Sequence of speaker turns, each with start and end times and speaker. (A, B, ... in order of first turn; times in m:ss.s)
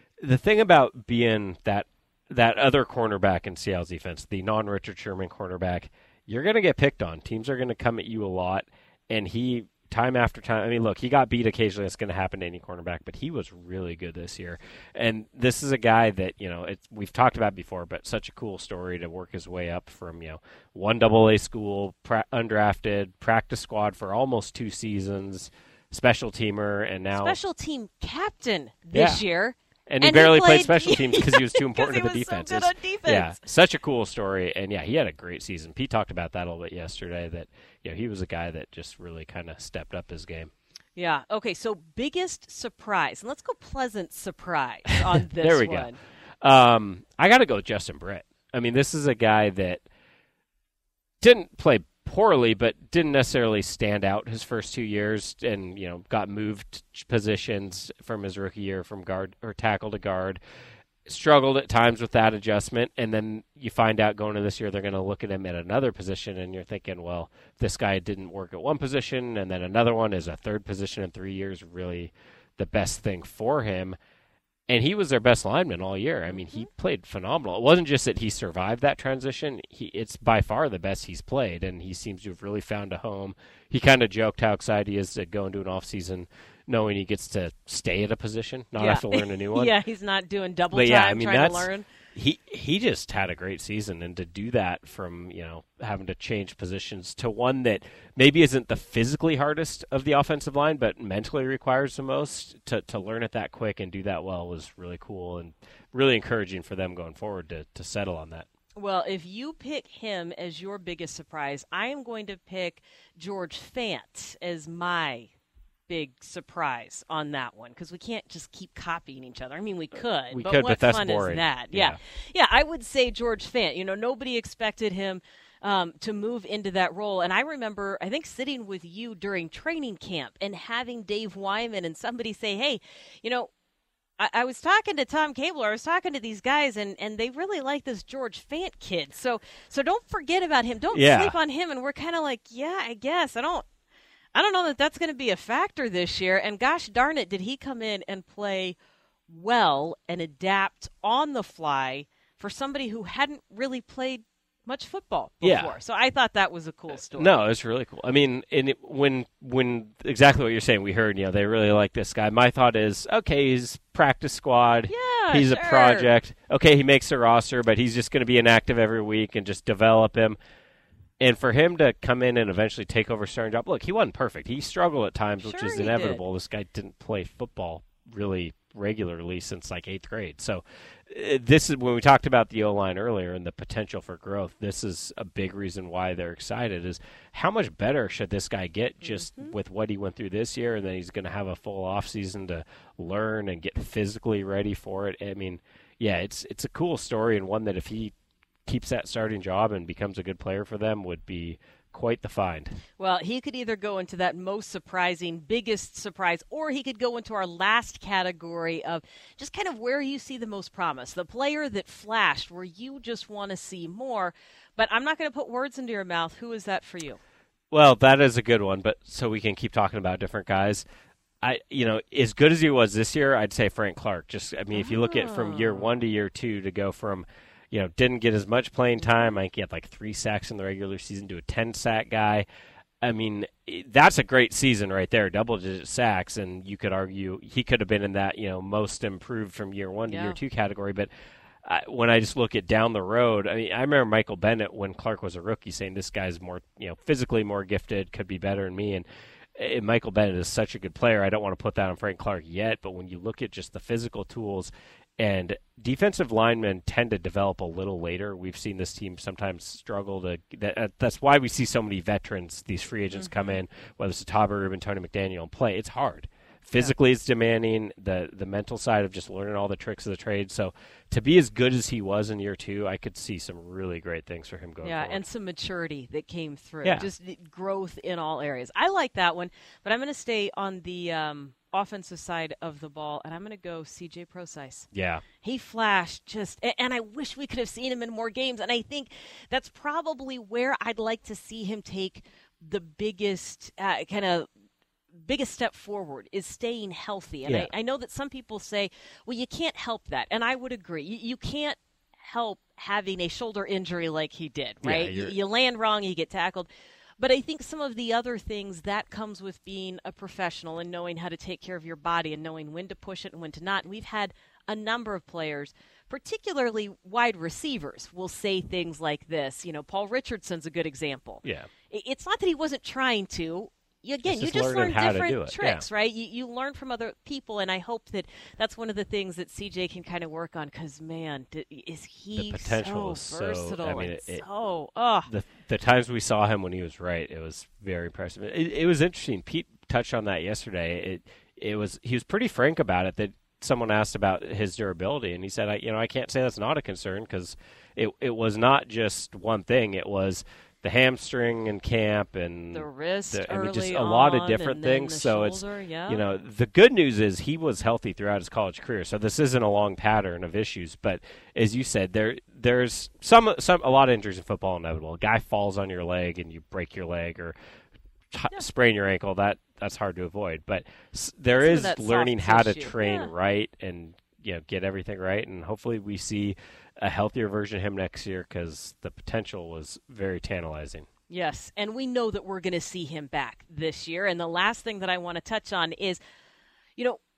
0:00.2-0:27.4 A
0:27.1-0:33.4 B
0:28.9-0:29.2 A
0:29.9-0:40.5 A
0:41.0-0:46.0 B
0:45.1-0:45.9 A
0:46.4-0:49.9 A
0:51.2-1:00.4 A
1:01.1-1:14.0 A
1:14.7-1:29.8 A
1:28.8-1:31.9 B
1:30.7-1:48.5 A
1:48.8-1:55.3 B
1:55.9-2:13.5 B
2:00.3-2:02.0 A
2:14.2-2:23.6 B
2:20.9-2:21.4 A
2:24.4-2:28.8 B
2:29.3-2:37.4 B
2:35.4-2:35.8 A
2:36.9-2:50.4 A
2:44.9-2:46.1 B
2:51.2-3:18.1 A
2:55.4-2:56.2 B
3:09.0-3:09.6 B
3:18.7-3:22.8 A
3:23.0-3:37.2 B
3:37.7-3:40.8 A
3:41.4-3:52.5 A
3:44.7-3:46.0 B
3:49.0-3:49.3 B
3:53.0-4:01.1 A
4:00.1-4:00.4 B
4:01.7-4:09.1 A
4:09.6-4:35.2 A
4:23.1-4:23.6 B
4:34.8-4:44.9 B
4:36.8-4:37.1 A
4:44.9-4:45.2 A
4:45.4-4:54.5 B
4:55.2-5:35.3 B
4:57.5-4:57.7 A
5:04.8-5:05.4 A
5:21.4-5:21.7 A
5:24.2-5:25.9 A
5:32.4-5:34.4 A
5:35.3-6:07.6 A
5:52.7-5:56.2 B
6:08.3-6:21.1 A
6:11.6-6:13.3 B
6:21.3-6:26.2 B